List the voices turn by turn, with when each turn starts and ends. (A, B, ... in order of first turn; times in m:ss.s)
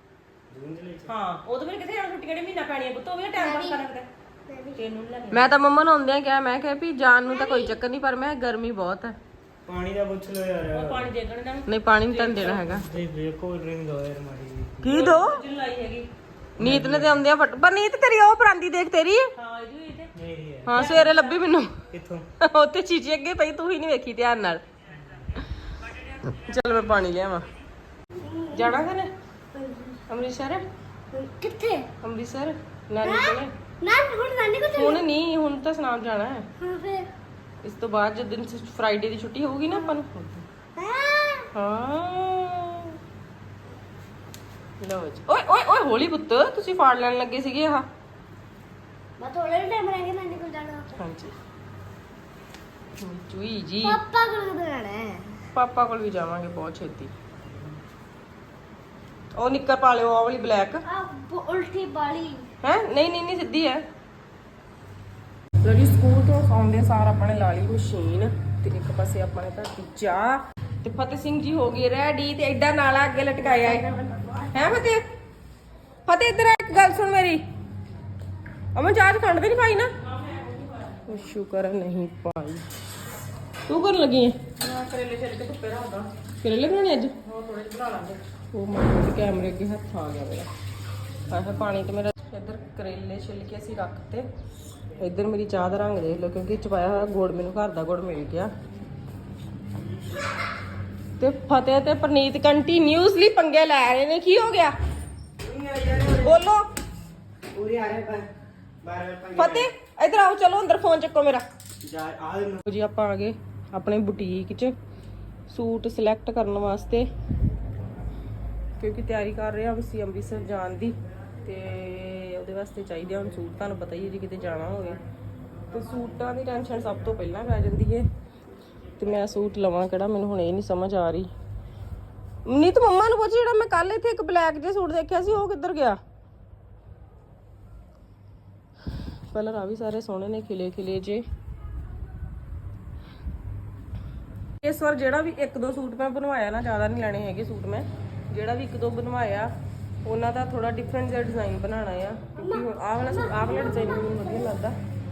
0:00.5-0:01.1 A
0:01.1-0:04.1 B
0:03.4-0:03.8 C
0:04.5-0:04.8 C
0:04.8-0:05.5 B
0:05.3-0:09.2 D
0:07.3-0:07.8 C
0:09.7-0:11.1 A
0:10.7-0:12.7 B
0:11.7-0:12.9 D
0:12.4-0:14.9 A
0:14.8-0:15.4 D
0:14.9-0:16.1 B
0:16.6-0:17.2 A
0:16.6-0:19.3 D
0:19.4-0:20.1 B
0:20.2-0:20.9 A
0:20.7-0:21.7 D
0:20.7-0:21.4 B
0:21.9-0:22.3 A
0:22.4-0:24.6 D
0:26.3-0:27.4 D
0:28.1-0:28.8 C
0:28.5-0:29.1 D
0:29.5-0:30.0 C
0:30.1-0:30.6 D
0:31.1-0:31.9 C
0:32.0-0:33.5 D
0:33.0-0:35.0 C
0:34.7-0:36.5 D
0:36.6-0:37.1 C
0:37.6-0:40.4 D
0:40.8-0:41.5 C
0:41.5-0:43.0 D
0:44.8-0:47.9 D
0:49.2-0:50.9 C
0:51.0-0:51.3 D
0:53.0-0:54.0 D
0:53.8-0:55.4 C
0:55.5-0:57.1 D
0:59.4-1:00.8 D
1:00.8-1:02.5 C
1:02.6-1:03.8 D
1:05.6-1:13.9 D
1:13.5-1:14.5 C
1:14.5-1:15.0 D
1:16.1-1:17.4 D
1:18.8-1:19.9 D
1:20.2-1:20.7 B
1:21.0-1:22.6 D
1:23.7-1:30.5 D
1:31.3-1:34.3 D
1:35.0-1:38.5 D
1:41.2-1:44.7 D
1:45.4-1:46.4 A
1:46.2-1:46.7 D
1:47.5-1:48.3 A
1:48.8-1:49.7 A
1:49.4-1:51.4 D
1:51.8-1:52.6 A
1:52.6-1:54.8 D
1:55.5-1:57.1 D
1:58.8-2:05.0 D
2:05.7-2:08.1 D
2:09.0-2:11.3 D
2:12.4-2:16.0 D
2:19.3-2:21.2 D
2:24.6-2:29.5 D
2:30.0-2:34.8 D
2:32.4-2:34.5 C